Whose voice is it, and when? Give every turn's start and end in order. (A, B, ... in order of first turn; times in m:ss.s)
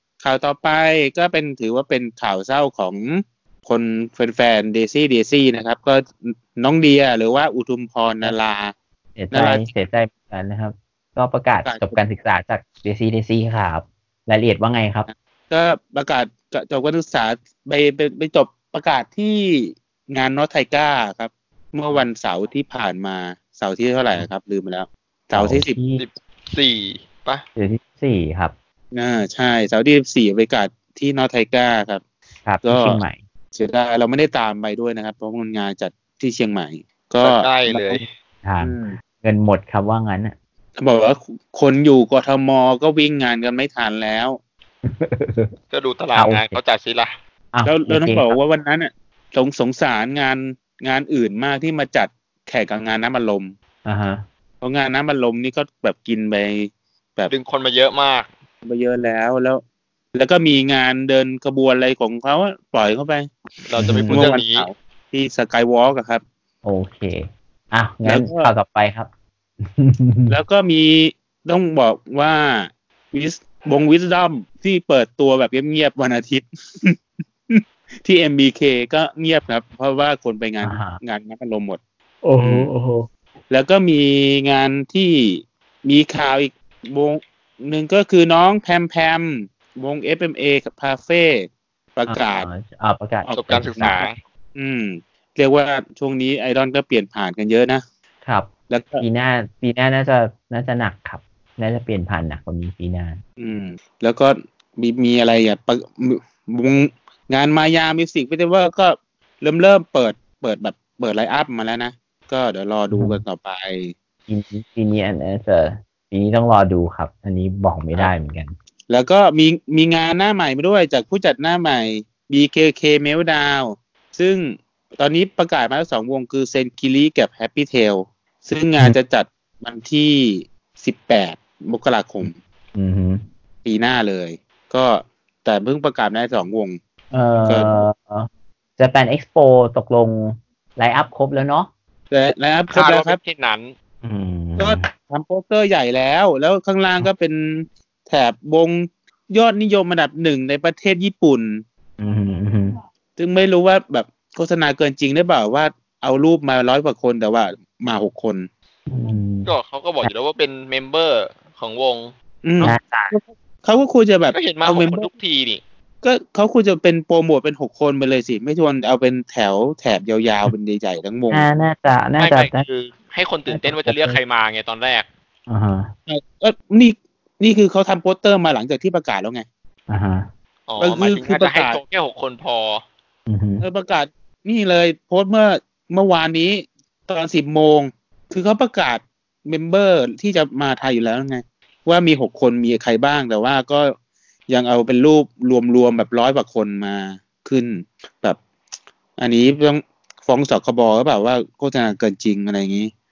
0:00.2-0:08.7 A
0:09.2-0:15.1 B
0:09.3-0:09.6 A
0:11.6-0:12.0 A
0:15.1-0:25.8 A
0:25.3-0:26.0 B
0:26.0-0:27.4 C
0:27.6-0:28.5 B
0:28.9-0:32.0 A
0:32.4-0:33.2 B
0:32.6-0:33.0 A
0:33.5-0:38.0 A
0:37.2-0:38.1 C
0:38.4-0:40.4 B
0:38.6-0:38.9 A
0:40.8-0:44.4 A
0:44.8-0:45.5 B
0:45.7-0:47.1 C
0:46.1-0:46.6 B
0:47.5-0:48.4 B
0:47.6-0:53.5 A
0:53.8-0:54.2 B
0:54.6-0:57.3 A
0:57.3-0:58.3 C
0:58.6-0:59.6 A
1:00.1-1:03.3 A
1:03.6-1:04.7 C
1:03.8-1:04.2 B
1:04.0-1:06.2 A
1:06.6-1:09.1 B
1:08.0-1:08.5 A
1:09.6-1:10.4 B
1:10.3-1:17.0 A
1:17.5-1:21.8 A
1:20.6-1:21.0 B
1:22.2-1:23.1 B
1:22.4-1:22.7 A
1:23.5-1:32.5 A
1:32.0-1:34.1 B
1:33.2-1:33.9 A
1:33.3-1:34.2 C
1:34.6-1:37.8 A
1:38.2-1:43.2 B
1:38.7-1:39.0 A
1:43.4-1:53.9 A
1:52.9-1:53.2 B
1:54.3-1:58.5 B
1:58.9-2:12.3 A
2:12.2-2:13.2 B
2:13.6-2:16.8 A
2:17.1-2:21.7 B
2:17.5-2:17.8 A
2:22.1-2:23.2 A
2:22.7-2:23.7 C
2:24.0-2:24.9 B
2:24.6-2:31.6 A
2:32.0-2:32.7 B
2:33.2-2:38.5 A
2:38.9-2:40.1 B
2:39.4-2:42.1 C
2:42.4-2:45.1 A
2:42.6-2:43.2 B
2:44.3-2:45.6 C
2:46.0-2:51.5 A
2:51.3-2:52.6 B
2:52.2-2:55.1 C
2:53.5-2:54.2 B
2:55.5-2:55.9 B
2:56.1-2:59.4 A
2:59.9-3:00.3 B
3:00.7-3:02.8 C
3:00.8-3:01.8 A
3:03.3-3:03.6 B
3:03.6-3:13.9 A
3:14.5-3:18.4 A
3:19.2-3:22.9 A